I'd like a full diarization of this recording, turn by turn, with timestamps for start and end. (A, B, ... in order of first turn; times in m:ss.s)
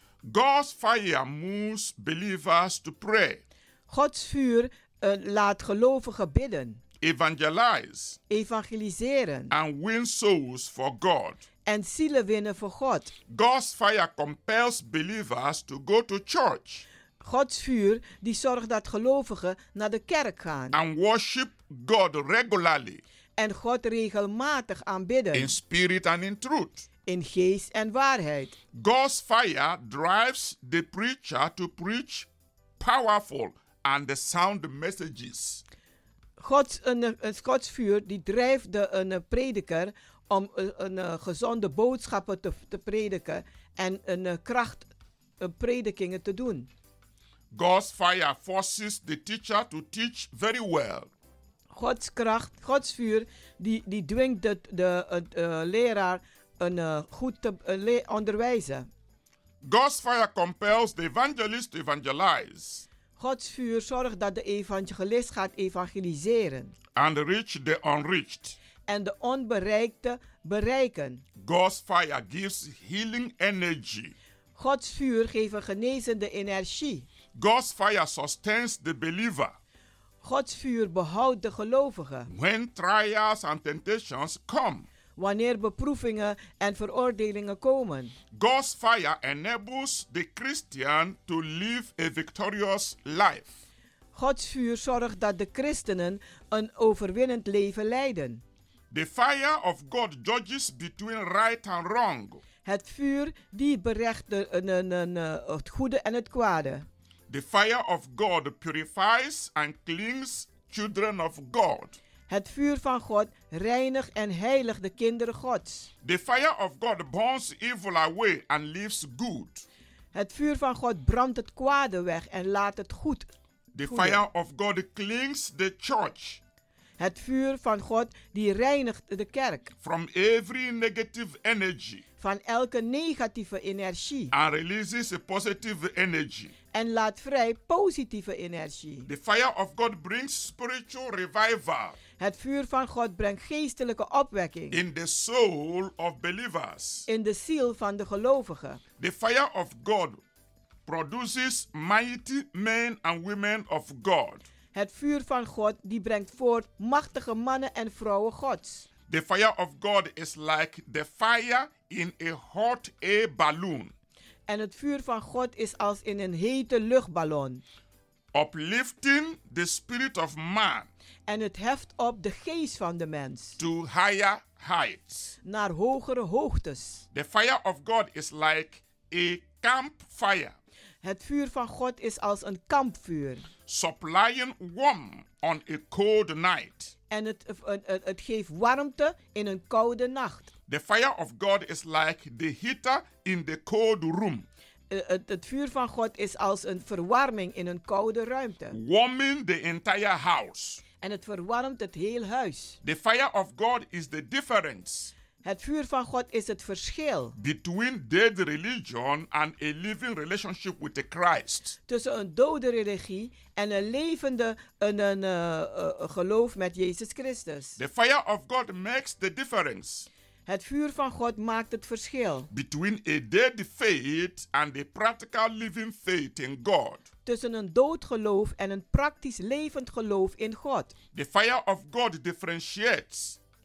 0:00.2-0:03.4 A
0:03.9-0:06.8 B
0:07.0-0:08.2 A
0:08.3-0:09.5 B
0:09.5-0:11.4 A
0:11.6-0:13.2 B
0:13.3-0:16.8 A
0:17.2-0:20.8 B
0:20.7-0:23.0 A
0:23.4-0:25.5 B
0:25.3-0:26.9 A
0:27.1-0:28.6 B
0:28.7-0:32.3 A
0:32.8-0:35.6 A
0:36.4-0:44.9 B
0:45.4-0:46.7 B
0:47.5-0:51.1 A
0:51.7-0:58.9 B
0:59.6-1:02.8 A
1:03.2-1:06.8 B
1:07.0-1:08.6 A
1:08.9-1:11.2 B
1:11.4-1:14.2 A
1:14.6-1:17.1 B
1:17.4-1:19.6 A
1:20.2-1:22.3 B
1:22.3-1:24.9 A
1:25.2-1:28.1 B
1:28.3-1:33.5 A
1:34.1-1:38.4 B
1:38.9-1:42.4 A
1:42.6-1:46.9 B
1:47.3-1:52.0 A
1:52.3-1:55.9 B
1:56.0-1:59.7 A
2:00.1-2:03.3 B
2:03.7-2:06.4 A
2:03.8-2:04.2 B
2:07.0-2:09.7 B
2:09.8-2:12.0 A
2:12.2-2:14.3 B
2:14.3-2:16.5 A
2:16.7-2:19.1 B
2:19.1-2:22.0 A
2:22.2-2:24.8 B
2:24.7-2:27.1 A
2:27.1-2:28.8 B
2:29.0-2:30.2 A
2:30.9-2:34.5 A
2:34.7-2:38.9 B
2:39.1-2:43.9 A
2:44.5-2:47.6 B
2:48.3-2:50.9 A
2:51.3-2:53.6 B
2:53.6-2:55.4 A
2:55.4-2:57.0 B
2:57.1-3:00.6 A
3:01.0-3:03.5 B
3:03.7-3:06.9 A
3:07.1-3:10.5 B
3:10.7-3:14.5 A
3:14.9-3:18.8 B
3:18.7-3:20.8 A
3:21.0-3:22.8 B
3:22.8-3:25.1 A
3:25.4-3:27.4 B
3:27.4-3:31.8 A
3:31.9-3:37.8 B
3:37.8-3:40.1 A
3:40.5-3:42.5 B
3:42.5-3:47.0 A
3:47.3-3:50.9 B
3:51.1-3:53.4 A